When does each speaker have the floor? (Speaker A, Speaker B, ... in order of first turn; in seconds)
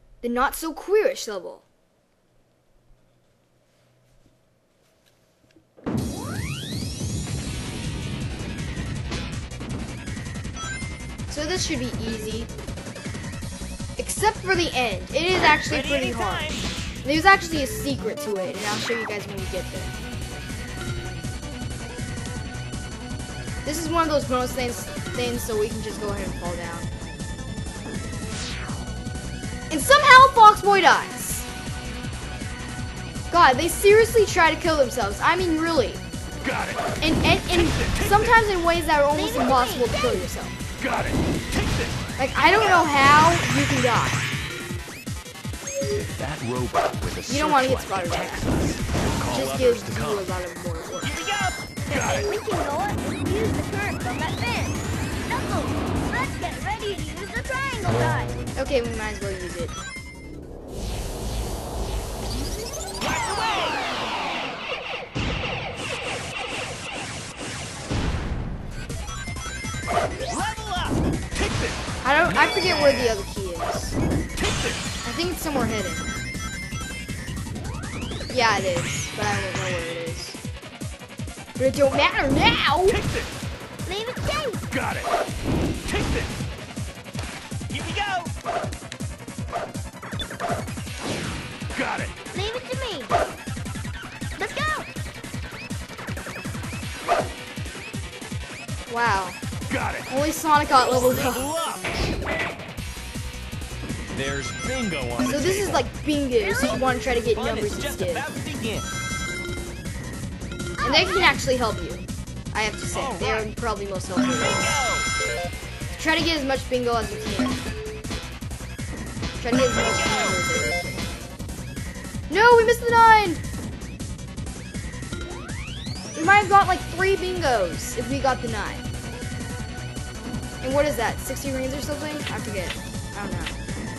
Speaker A: 0.2-1.6, 11.3-12.5, 14.0-19.9, 23.6-26.9, 29.7-31.5, 33.3-36.0, 37.0-40.5, 42.2-44.2, 47.3-48.5, 49.3-51.2, 58.5-59.8, 72.0-74.0, 75.0-76.1, 78.3-80.4, 81.6-83.0, 98.9-99.4, 100.1-101.5, 105.2-108.2, 110.8-114.8, 115.9-117.6, 119.4-121.0, 122.3-123.4, 126.1-128.8, 130.6-133.6
Speaker B: 15.7-16.7, 40.8-41.2, 45.9-50.3, 51.0-52.3, 63.0-63.8, 70.2-71.8, 72.3-73.2, 74.4-74.7, 87.7-88.3, 91.8-92.1, 99.7-100.1, 100.9-102.0, 104.1-105.8, 107.3-108.9, 112.9-113.5, 114.4-115.1, 119.8-120.4
Speaker C: 39.1-40.2, 51.9-58.4, 83.8-84.6, 92.3-93.1, 94.4-94.9, 106.4-106.9, 110.8-111.3